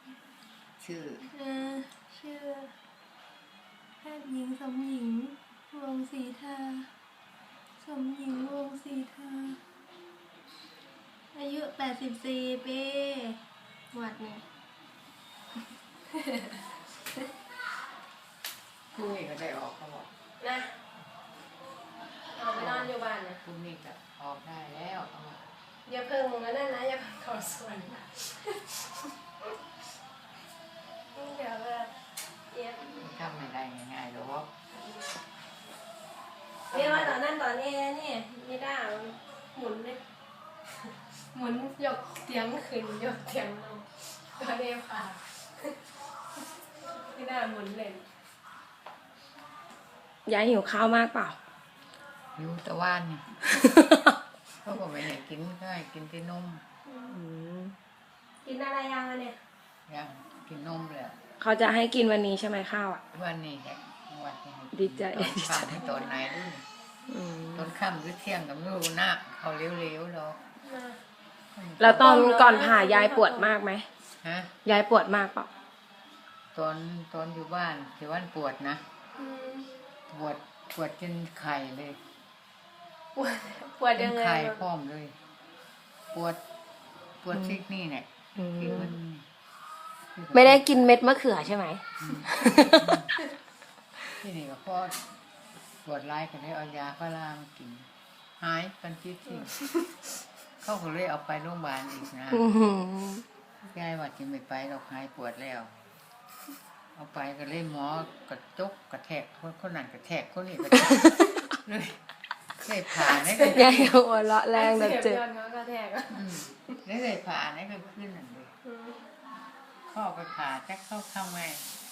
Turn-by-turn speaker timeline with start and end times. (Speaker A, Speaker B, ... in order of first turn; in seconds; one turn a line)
Speaker A: 0.8-1.3
Speaker B: 1.3-2.8
Speaker B: 4.0-6.9
Speaker B: 7.8-9.6
Speaker B: 11.3-13.4
Speaker B: 13.9-14.4
Speaker B: 16.2-16.6
Speaker A: 18.9-20.1
Speaker B: 20.4-20.8
Speaker B: 22.3-23.4
Speaker A: 22.5-25.5
Speaker B: 25.9-29.1
Speaker B: 31.1-32.0
Speaker B: 32.5-33.0
Speaker A: 32.9-34.5
Speaker A: 36.7-37.2
Speaker B: 36.7-40.0
Speaker B: 40.7-45.8
Speaker B: 46.9-48.1
Speaker C: 50.3-51.4
Speaker A: 52.4-53.4
Speaker A: 54.6-56.6
Speaker B: 56.9-57.2
Speaker C: 57.1-57.8
Speaker B: 58.4-59.4
Speaker A: 59.9-61.2
Speaker C: 61.4-63.0
Speaker A: 63.1-66.7
Speaker C: 64.7-65.8
Speaker B: 65.8-66.2
Speaker C: 67.1-67.6
Speaker A: 67.5-70.4
Speaker B: 70.6-71.0
Speaker A: 71.5-72.1
Speaker C: 71.8-73.9
Speaker B: 71.8-73.5
Speaker A: 74.2-74.5
Speaker C: 74.7-75.5
Speaker A: 76.5-78.8
Speaker B: 79.2-79.7
Speaker A: 80.1-82.0
Speaker B: 83.2-84.6
Speaker A: 84.0-85.2
Speaker A: 86.1-86.4
Speaker A: 87.2-89.2
Speaker C: 88.4-88.9
Speaker A: 90.2-90.9
Speaker C: 90.3-93.0
Speaker A: 92.0-93.1
Speaker A: 94.2-95.2
Speaker A: 95.8-97.9
Speaker A: 98.4-99.6
Speaker B: 99.3-99.6
Speaker A: 100.6-102.6
Speaker C: 102.3-103.2
Speaker A: 103.6-105.7
Speaker A: 107.0-111.1
Speaker A: 111.6-112.0
Speaker A: 112.6-114.0
Speaker B: 113.1-113.7
Speaker C: 113.4-115.2
Speaker B: 114.5-116.7
Speaker A: 116.1-118.5
Speaker B: 118.6-119.0
Speaker A: 119.9-121.7